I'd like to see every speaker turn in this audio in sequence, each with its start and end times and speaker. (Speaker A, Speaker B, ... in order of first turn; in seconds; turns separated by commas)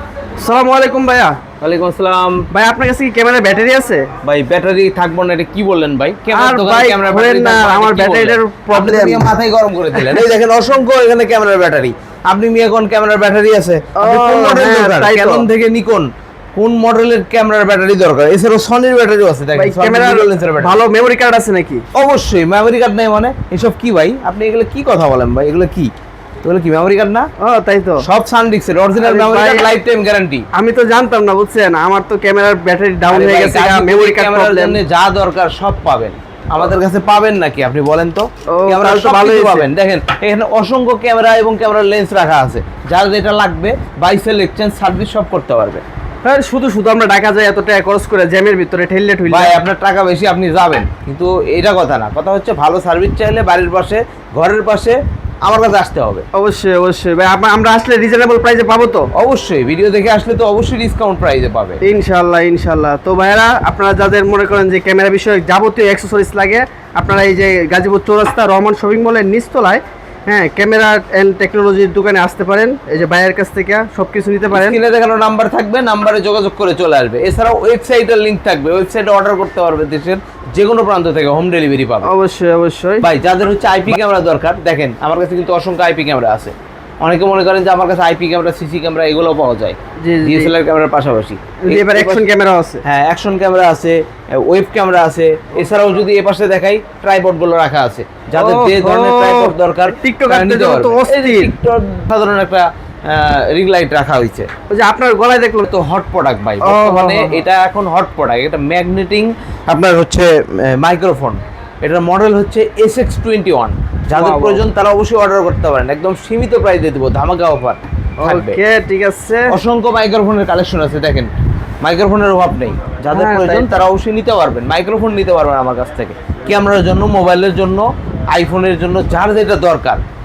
Speaker A: 0.4-1.4, Speaker B: 1.6-2.5, Speaker A: 2.5-4.1, Speaker B: 4.2-20.8, Speaker A: 6.3-9.3, Speaker A: 10.0-10.2, Speaker A: 14.0-15.4, Speaker A: 19.6-21.8, Speaker B: 21.9-25.9, Speaker B: 26.4-27.3, Speaker A: 27.4-28.0, Speaker B: 28.0-30.4, Speaker A: 29.0-29.7, Speaker A: 30.5-34.8, Speaker B: 33.1-45.8, Speaker A: 38.5-39.7, Speaker A: 46.2-49.5, Speaker B: 49.3-56.2, Speaker A: 56.3-59.1, Speaker B: 59.1-61.8, Speaker A: 61.8-74.8, Speaker B: 74.5-82.1, Speaker A: 82.0-83.1, Speaker B: 83.0-92.2, Speaker A: 90.0-90.5, Speaker A: 91.6-92.8, Speaker B: 92.8-104.5, Speaker A: 98.3-101.5, Speaker A: 104.7-105.7, Speaker B: 105.6-118.6, Speaker A: 106.6-107.4, Speaker A: 114.1-114.6, Speaker A: 118.2-119.5, Speaker B: 119.5-130.0, Speaker A: 123.1-123.7